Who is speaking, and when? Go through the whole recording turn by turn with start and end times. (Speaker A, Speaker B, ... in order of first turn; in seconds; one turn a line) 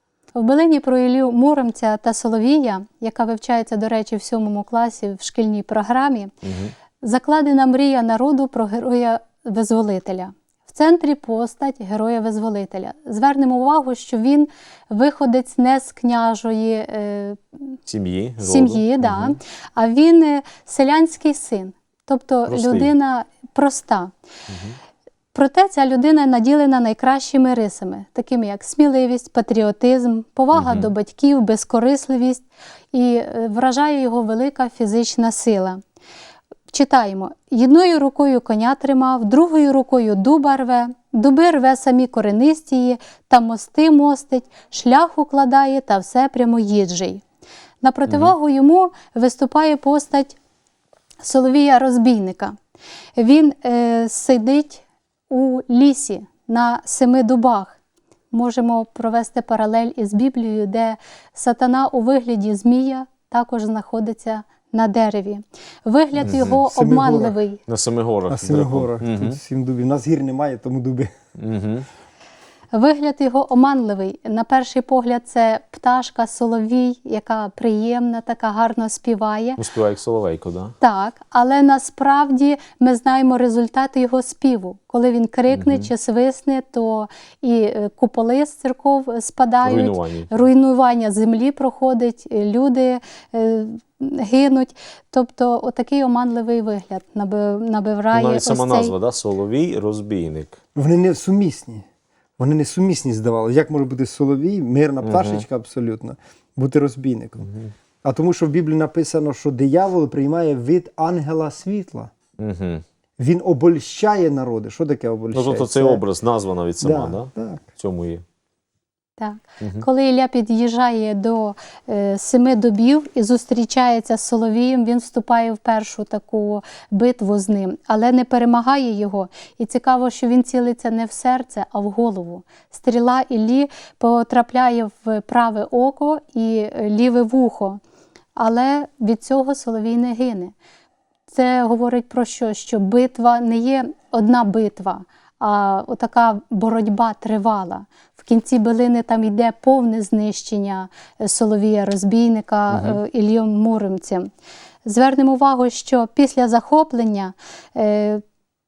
Speaker A: 0.3-6.3
Speaker B: 6.4-6.7
Speaker A: 7.0-17.8
Speaker B: 17.9-19.4
Speaker A: 18.4-24.1
Speaker B: 22.5-22.9
Speaker B: 24.5-24.8
Speaker A: 25.3-35.8
Speaker B: 30.5-30.9
Speaker A: 36.7-47.2
Speaker A: 47.8-50.4
Speaker B: 48.1-48.3
Speaker A: 51.2-52.6
Speaker A: 53.2-57.8
Speaker A: 58.3-67.6
Speaker C: 66.2-67.4
Speaker B: 66.2-66.5
Speaker B: 67.7-69.4
Speaker C: 68.3-71.1
Speaker B: 71.4-71.9
Speaker A: 72.7-79.6
Speaker B: 79.6-80.8
Speaker A: 80.8-98.9
Speaker B: 85.5-85.9
Speaker B: 89.6-90.3
Speaker B: 98.1-100.6
Speaker C: 100.8-101.9
Speaker C: 102.4-107.5
Speaker B: 105.0-105.5
Speaker B: 107.4-107.7
Speaker C: 108.0-112.1
Speaker B: 112.4-112.8
Speaker C: 113.2-116.0
Speaker B: 115.3-118.2
Speaker C: 116.8-117.6
Speaker A: 119.2-137.8
Speaker B: 119.6-119.9
Speaker A: 138.4-140.5
Speaker A: 141.3-154.3
Speaker B: 152.7-153.0
Speaker A: 154.8-158.2